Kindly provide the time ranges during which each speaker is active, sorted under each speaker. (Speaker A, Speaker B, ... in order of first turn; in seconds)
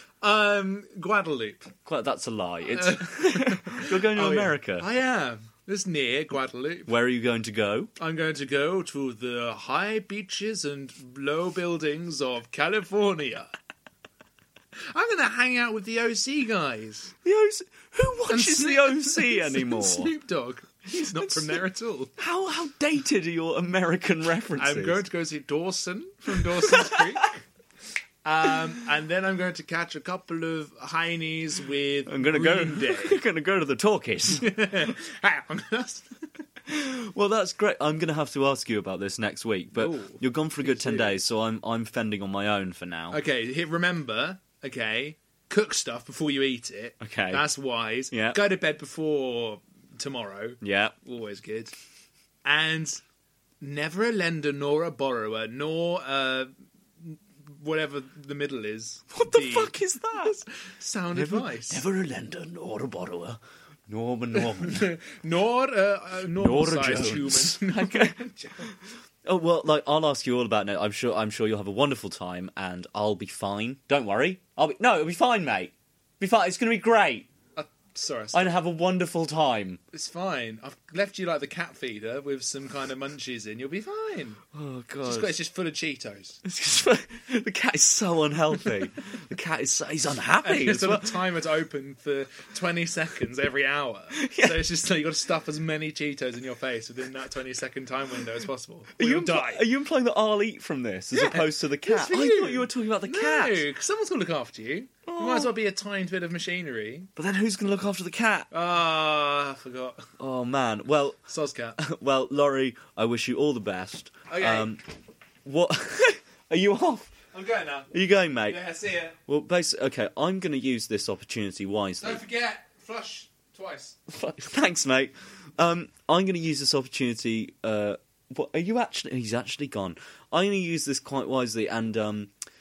Speaker A: 0.2-1.7, 2.7-7.0, 8.0-13.5, 14.8-17.1, 18.3-22.1, 24.6-27.4, 28.2-33.2, 34.3-36.2, 39.7-41.2, 43.1-51.8, 52.5-53.0, 53.6-59.8, 60.6-61.9, 64.3-68.7, 77.6-78.6, 79.9-84.4, 85.0-86.4, 90.4-99.7, 101.1-107.1, 108.5-110.1, 111.3-111.8, 114.3-114.7, 117.3-119.2, 122.0-124.0
Speaker B: 1.9-4.9, 6.9-7.9, 17.2-20.1, 20.9-21.6, 22.2-25.0, 26.6-27.0, 32.1-34.5, 36.7-43.2, 47.0-47.5, 48.1-48.5, 50.6-51.0, 59.1-60.5, 61.1-64.9, 66.4-68.2, 69.2-77.3, 78.3-79.8, 84.5-85.4, 86.4-91.2, 94.1-94.6, 99.0-103.7, 105.1-105.6, 107.2-108.5, 110.2-111.2, 111.8-114.8, 115.5-117.1, 117.9-118.7, 119.2-122.2, 124.1-132.3